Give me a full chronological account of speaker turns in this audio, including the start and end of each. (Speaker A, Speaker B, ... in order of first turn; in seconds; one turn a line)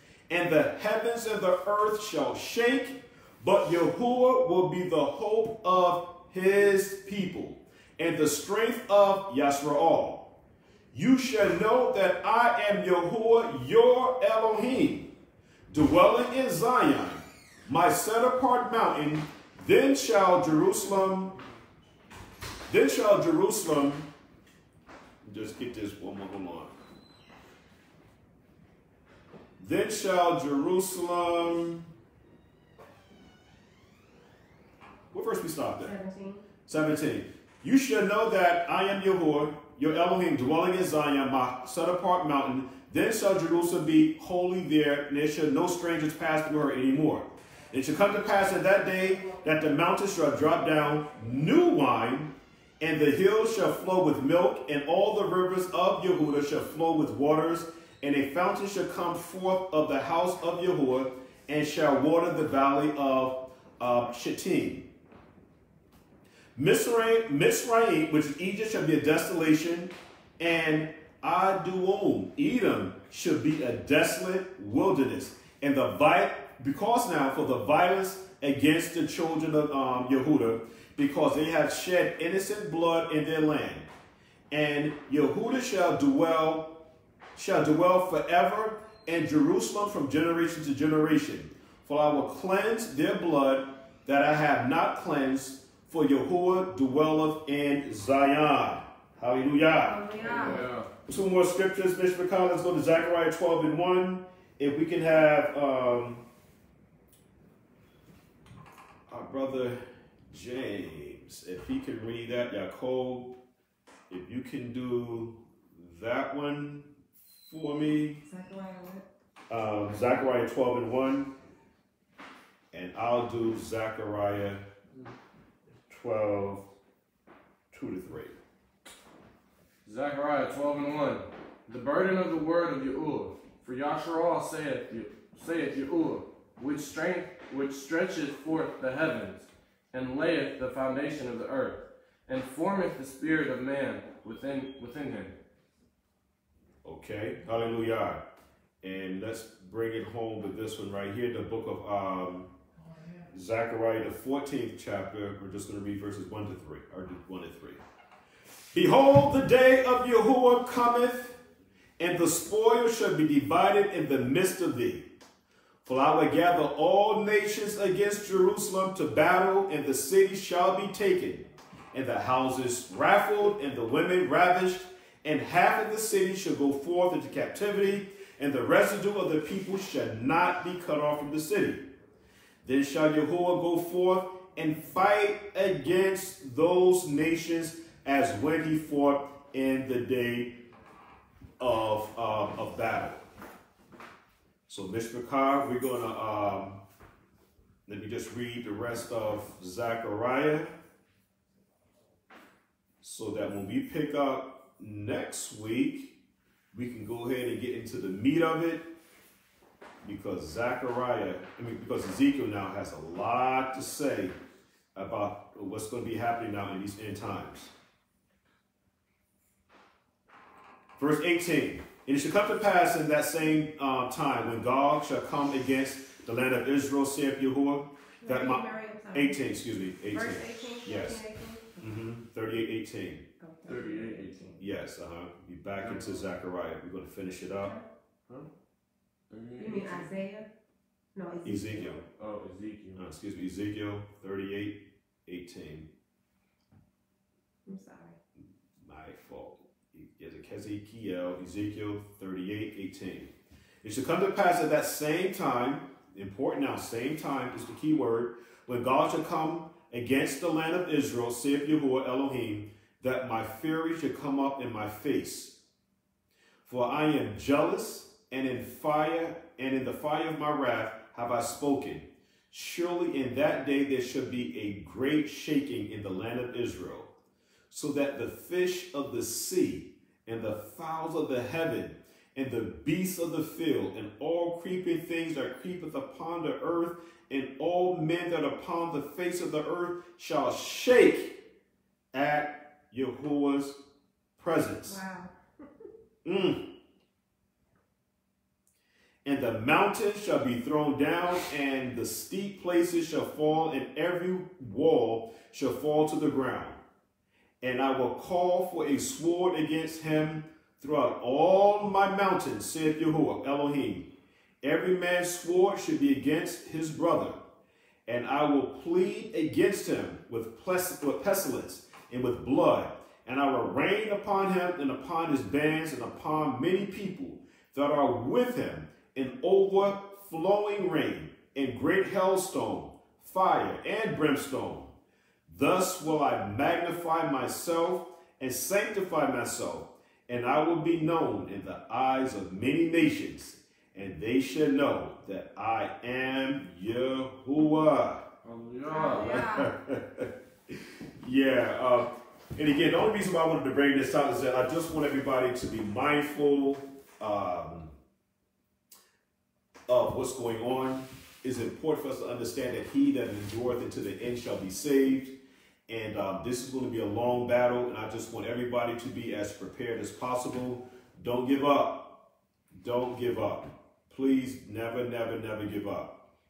Speaker A: 0.3-10.3
Speaker A: 10.9-15.1
Speaker A: 15.7-21.3
Speaker A: 22.7-24.1
Speaker A: 25.2-26.7
Speaker A: 29.6-31.9
Speaker A: 35.1-35.9
Speaker B: 35.8-36.4
Speaker A: 36.7-64.9
Speaker A: 66.5-83.9
Speaker A: 84.5-86.7
Speaker A: 87.3-100.0
Speaker B: 99.8-100.7
Speaker C: 100.2-100.9
Speaker A: 101.1-106.2
Speaker A: 109.1-113.3
Speaker A: 114.1-116.9
Speaker A: 117.4-118.2
Speaker B: 118.2-119.0
Speaker A: 119.5-121.3
Speaker A: 122.7-124.6
Speaker A: 125.9-126.7
Speaker A: 127.7-128.3
Speaker C: 129.8-145.3
Speaker A: 146.8-148.2
Speaker A: 148.8-152.5
Speaker A: 153.3-157.8
Speaker A: 158.7-161.4
Speaker A: 162.0-165.1
Speaker A: 165.8-181.8
Speaker A: 182.6-190.6
Speaker A: 191.6-193.2
Speaker A: 194.7-196.8
Speaker A: 197.9-200.7
Speaker A: 203.0-206.1
Speaker A: 206.7-208.9
Speaker A: 210.0-214.3
Speaker A: 214.9-217.7
Speaker A: 221.0-231.2
Speaker B: 228.2-229.4
Speaker B: 230.1-231.8
Speaker A: 231.8-233.2
Speaker B: 233.4-234.4
Speaker C: 233.7-234.6
Speaker A: 234.6-237.7
Speaker C: 235.8-236.3
Speaker C: 239.3-240.1
Speaker B: 239.6-240.5
Speaker B: 241.1-242.0
Speaker A: 241.4-242.0
Speaker C: 242.0-243.0
Speaker A: 242.9-245.9
Speaker B: 247.7-248.2
Speaker A: 248.8-253.3
Speaker A: 253.8-265.6
Speaker A: 266.6-277.1
Speaker A: 277.7-291.4
Speaker A: 292.1-293.8
Speaker A: 294.4-295.0
Speaker B: 294.8-295.3
Speaker A: 296.2-296.6
Speaker A: 299.2-306.8
Speaker A: 307.6-314.1
Speaker A: 314.6-317.4
Speaker A: 318.1-334.9
Speaker A: 335.5-348.2
Speaker C: 348.4-349.4
Speaker B: 348.9-349.7
Speaker A: 349.1-357.9
Speaker A: 359.9-365.4
Speaker A: 365.9-372.2
Speaker A: 372.7-376.1